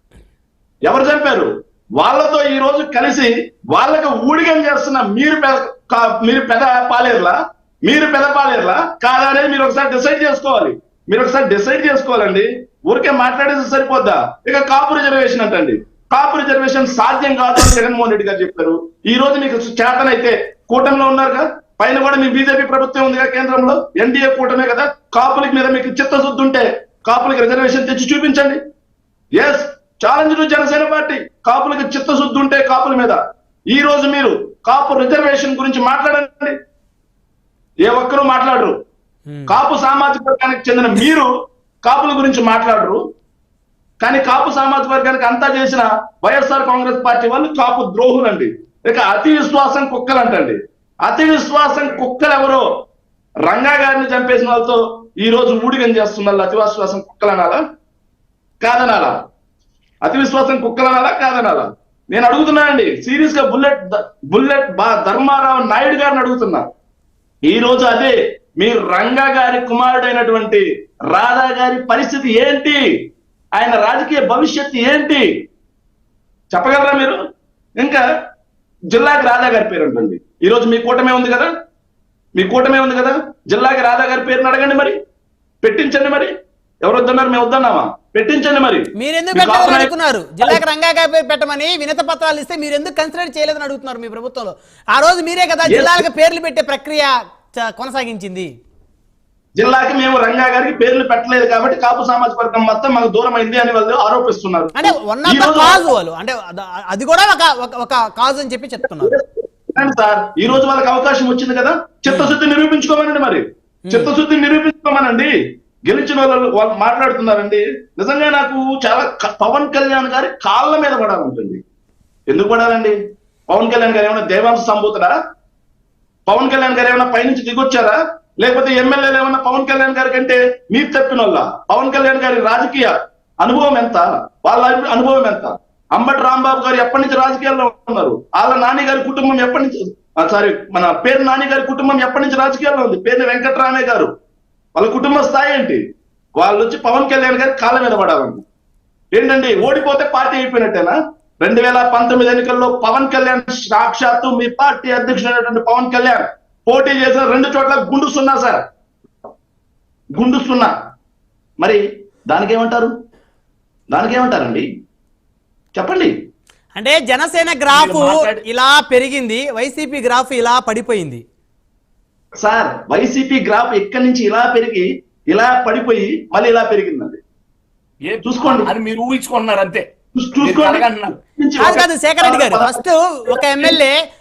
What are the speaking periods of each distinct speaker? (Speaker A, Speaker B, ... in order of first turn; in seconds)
Speaker A: 0.8-28.6, 29.3-36.5, 37.8-38.8, 39.5-41.3, 41.8-43.0, 44.0-52.7, 53.5-57.6, 58.6-59.2, 60.0-66.7, 67.4-72.8, 73.5-75.3, 76.5-77.2, 77.8-78.0, 78.9-81.5, 82.4-85.0, 85.6-86.3, 86.8-89.9, 95.7-96.0, 99.6-105.9, 108.9-115.3, 115.8-121.6, 122.3-123.0, 123.5-125.1, 126.3-144.1, 144.8-145.8, 146.4-148.4, 149.1-158.6, 160.1-160.7, 161.6-162.9, 163.9-164.7, 165.8-166.1, 172.4-177.2, 178.2-178.7, 180.2-180.8, 181.4-183.8
Speaker B: 39.3-39.5, 89.0-98.5, 104.8-109.1, 112.1-112.4, 113.9-114.1, 166.8-171.2, 181.6-183.9
Speaker C: 167.7-168.4, 178.1-179.9, 180.4-181.2